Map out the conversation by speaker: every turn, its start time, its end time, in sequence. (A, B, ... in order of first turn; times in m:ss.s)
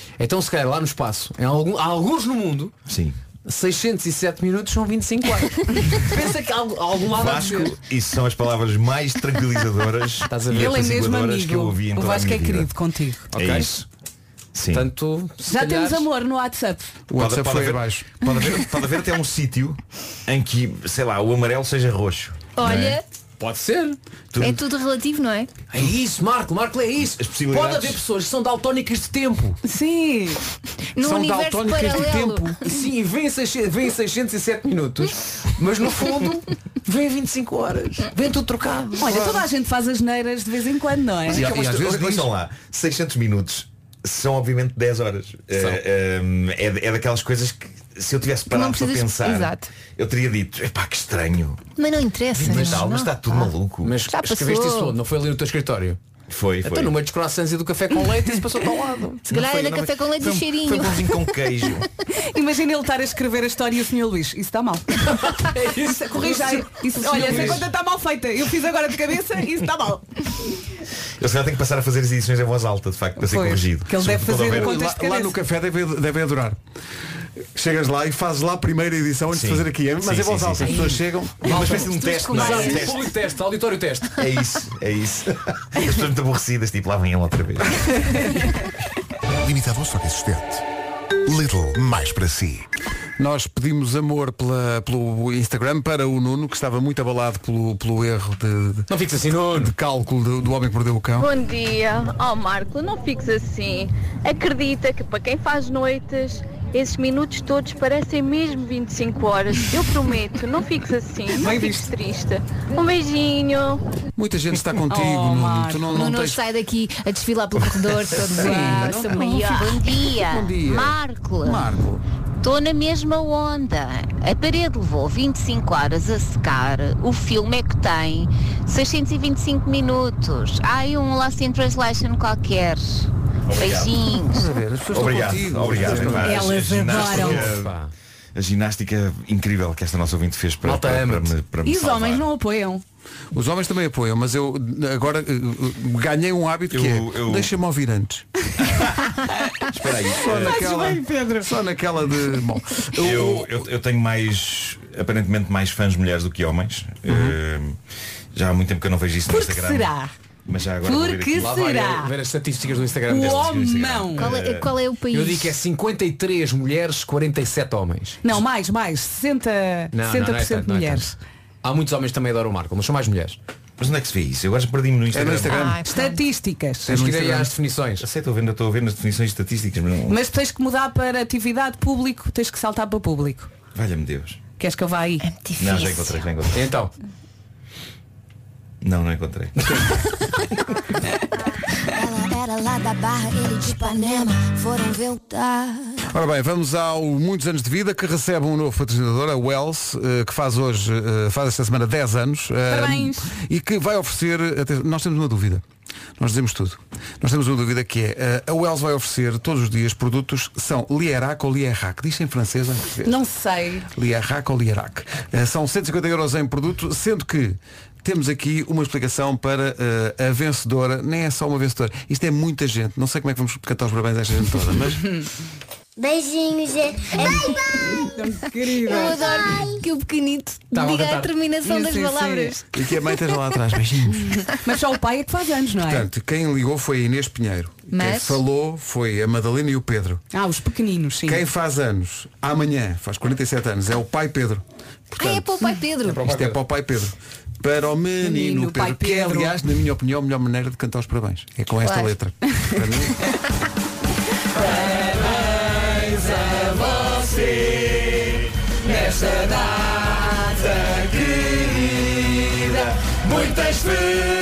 0:00.2-0:02.7 A
0:02.9-0:03.2 B
0:03.4-0:07.7 A
0:07.1-0:12.7 B
0:10.3-0:10.9 A
0:10.5-0:13.3 C
0:13.3-0:13.7 A
0:13.3-0:13.9 B
0:14.5-0:14.9 B
0:14.7-0:16.1 A
0:15.4-0:16.9 C
0:17.1-0:18.2 D
0:17.1-0:23.0 B
0:22.5-0:23.0 E
0:23.4-0:24.0 A
0:24.3-0:24.6 B
0:24.4-0:25.5 E
0:25.7-0:29.6 A
0:27.2-0:28.0 B
0:29.6-0:30.4 C
0:31.0-0:32.6 E
0:31.0-0:32.6 D
0:32.6-0:39.1 A
0:39.0-0:41.4 C
0:39.0-0:39.4 D
0:41.3-0:42.3 D
0:41.3-0:51.7 B
0:45.5-0:45.8 A
0:48.5-0:49.7 E
0:51.8-0:55.0 E
0:52.3-0:52.9 A
0:52.4-0:53.9 B
0:53.8-0:56.0 A
0:56.3-0:57.0 B
0:56.6-0:59.9 A
0:59.3-1:01.8 E
0:59.6-1:01.9 B
1:02.2-1:10.2 C
1:05.0-1:07.7 A
1:11.2-1:14.7 B
1:13.2-1:15.4 C
1:14.5-1:16.6 D
1:17.5-1:21.8 D
1:19.3-1:23.1 B
1:20.6-1:24.1 A
1:21.6-1:23.0 E
1:24.2-1:27.9 B
1:29.4-1:30.4 F
1:31.3-1:32.6 F
1:33.2-1:38.9 D
1:38.9-1:39.7 A
1:39.5-1:41.3 D
1:41.2-1:53.8 G
1:51.3-1:51.8 C
1:54.2-1:56.4 D
1:54.9-1:56.1 C
1:56.0-1:59.9 E
1:57.6-1:58.3 B
1:58.2-2:02.0 D
1:59.3-2:01.6 H
2:02.4-2:14.5 H
2:13.5-2:14.0 B
2:14.3-2:16.6 D
2:14.9-2:17.8 B
2:16.1-2:17.6 C
2:16.9-2:17.9 A
2:18.3-2:22.3 B
2:20.6-2:21.3 A
2:21.6-2:22.8 C
2:23.3-2:28.3 D
2:26.7-2:27.5 B
2:28.6-2:29.0 B
2:29.7-2:30.7 B
2:30.1-2:33.6 D
2:30.2-2:31.5 C
2:33.0-2:37.8 B
2:37.1-2:37.4 D
2:38.3-2:39.9 B
2:39.3-2:40.1 C
2:40.5-2:41.6 B
2:40.8-2:42.1 C
2:41.4-2:44.2 A
2:43.1-2:44.3 C
2:43.5-2:44.7 B
2:44.2-2:45.6 E
2:45.1-2:48.2 A
2:48.2-2:51.1 C
2:49.9-2:53.4 A
2:53.8-2:55.7 B
2:55.1-2:55.8 D
2:55.4-2:56.2 E
2:55.9-2:57.0 C
2:56.9-2:57.5 D
2:56.9-2:58.0 A
2:58.0-3:00.2 B
3:00.1-3:03.5 C
3:03.7-3:04.4 B
3:04.6-3:05.2 C
3:05.2-3:06.3 E
3:05.6-3:06.6 B
3:06.5-3:06.9 A
3:08.8-3:09.8 B
3:16.1-3:25.6 D
3:22.7-3:23.3 C
3:26.2-3:33.2 D
3:33.0-3:33.9 C
3:33.9-3:45.1 D
3:47.8-3:49.5 C
3:48.8-3:52.8 E
3:50.7-3:51.3 A
3:51.6-3:52.6 C
3:52.7-3:54.3 D
3:54.2-3:56.1 C
3:55.8-4:00.2 D
3:57.9-3:58.4 E
4:00.3-4:01.4 C
4:01.2-4:05.6 D
4:05.2-4:06.2 E
4:06.0-4:06.6 A
4:06.2-4:13.2 D
4:08.2-4:09.6 C
4:11.8-4:12.1 E
4:14.6-4:15.3 C
4:15.0-4:17.5 A
4:16.4-4:16.6 C
4:18.8-4:21.0 C